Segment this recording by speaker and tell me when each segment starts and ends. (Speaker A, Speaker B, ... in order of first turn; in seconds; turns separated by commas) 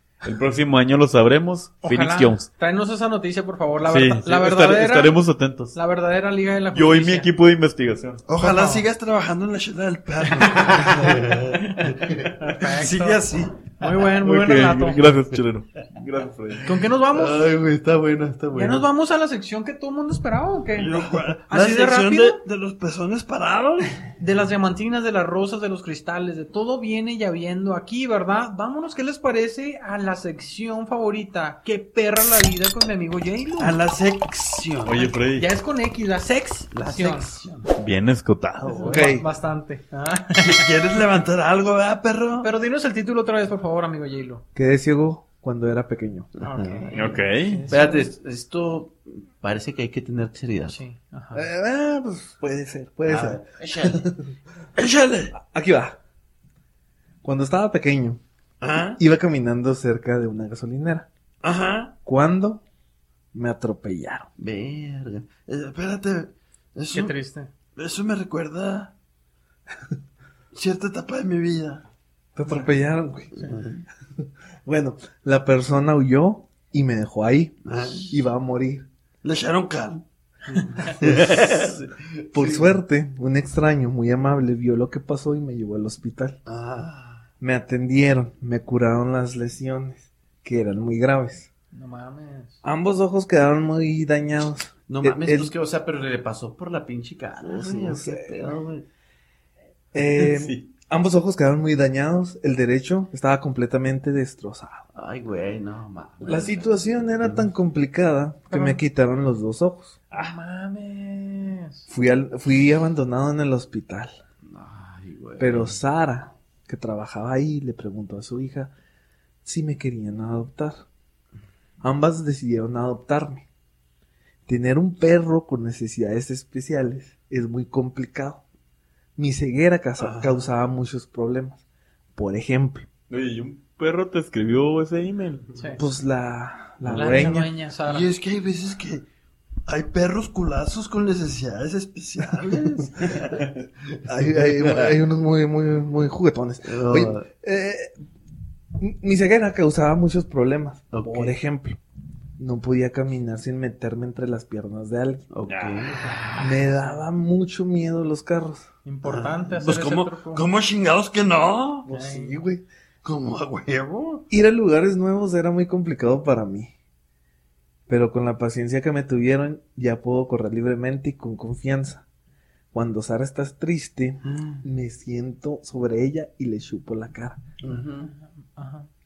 Speaker A: 0.2-2.5, Speaker B: 1.8-5.1, Speaker A: 3.8-5.8, Speaker B: 5.7-7.3, Speaker A: 6.7-8.2, Speaker C: 8.2-11.6, Speaker B: 8.3-8.8, Speaker B: 10.4-10.9, Speaker B: 11.5-15.0, Speaker C: 12.2-13.7, Speaker A: 14.2-16.8, Speaker B: 16.6-17.6, Speaker D: 17.2-18.9, Speaker B: 18.5-22.4, Speaker C: 20.7-24.0, Speaker B: 24.2-33.8, Speaker C: 33.6-35.1, Speaker A: 34.8-35.5, Speaker B: 35.3-37.6, Speaker D: 36.8-37.5, Speaker A: 37.8-39.1, Speaker B: 38.6-40.7, Speaker E: 38.8-39.2, Speaker C: 40.4-42.5, Speaker B: 42.4-44.4, Speaker E: 44.5-46.3, Speaker D: 46.4-50.8, Speaker B: 46.4-48.1, Speaker A: 46.9-47.7, Speaker B: 50.7-51.5, Speaker E: 51.3-54.2, Speaker D: 53.0-54.0, Speaker C: 54.8-55.3, Speaker E: 55.3-56.0, Speaker E: 57.2-58.2, Speaker C: 58.6-59.0, Speaker E: 59.0-61.1, Speaker C: 61.4-62.0, Speaker E: 62.0-62.6, Speaker E: 63.3-64.3, Speaker D: 64.4-65.4, Speaker C: 65.4-67.1, Speaker B: 66.9-67.5, Speaker C: 67.8-68.9, Speaker C: 70.5-71.8, Speaker E: 72.3-73.5, Speaker E: 74.6-78.9, Speaker C: 77.6-78.1, Speaker C: 79.2-80.0, Speaker B: 80.5-80.9, Speaker C: 81.0-82.6, Speaker E: 82.3-86.4, Speaker C: 86.5-87.2, Speaker E: 87.4-91.5, Speaker B: 91.7-92.6, Speaker E: 92.6-95.5, Speaker D: 94.9-98.8, Speaker E: 97.4-98.5, Speaker E: 99.9-104.8, Speaker A: 100.2-100.7, Speaker D: 104.9-107.5, Speaker E: 106.2-110.0, Speaker B: 108.5-108.8, Speaker A: 110.1-110.3, Speaker B: 110.1-111.9, Speaker E: 111.9-114.1, Speaker D: 114.5-115.8, Speaker E: 115.4-118.7, Speaker E: 119.4-120.8, Speaker E: 121.8-123.5, Speaker E: 124.5-128.4, Speaker E: 129.2-131.6, Speaker C: 130.0-130.4, Speaker E: 132.1-132.9, Speaker A: 133.1-135.5, Speaker B: 135.5-135.8, Speaker E: 135.8-137.5, Speaker D: 136.9-137.3, Speaker B: 136.9-138.1, Speaker C: 137.8-139.1, Speaker C: 139.7-143.5, Speaker E: 144.1-147.9, Speaker D: 146.7-147.3, Speaker E: 148.8-151.8, Speaker D: 150.9-151.4, Speaker E: 152.4-155.3, Speaker D: 155.3-156.1, Speaker A: 155.5-155.9, Speaker B: 155.9-157.0, Speaker E: 156.4-158.7, Speaker B: 158.8-160.4, Speaker C: 159.0-161.9, Speaker E: 161.8-162.7, Speaker B: 161.9-162.4, Speaker C: 163.0-164.2, Speaker E: 164.3-166.7, Speaker E: 167.9-172.0, Speaker E: 172.7-177.4, Speaker D: 177.7-178.1, Speaker B: 178.1-178.9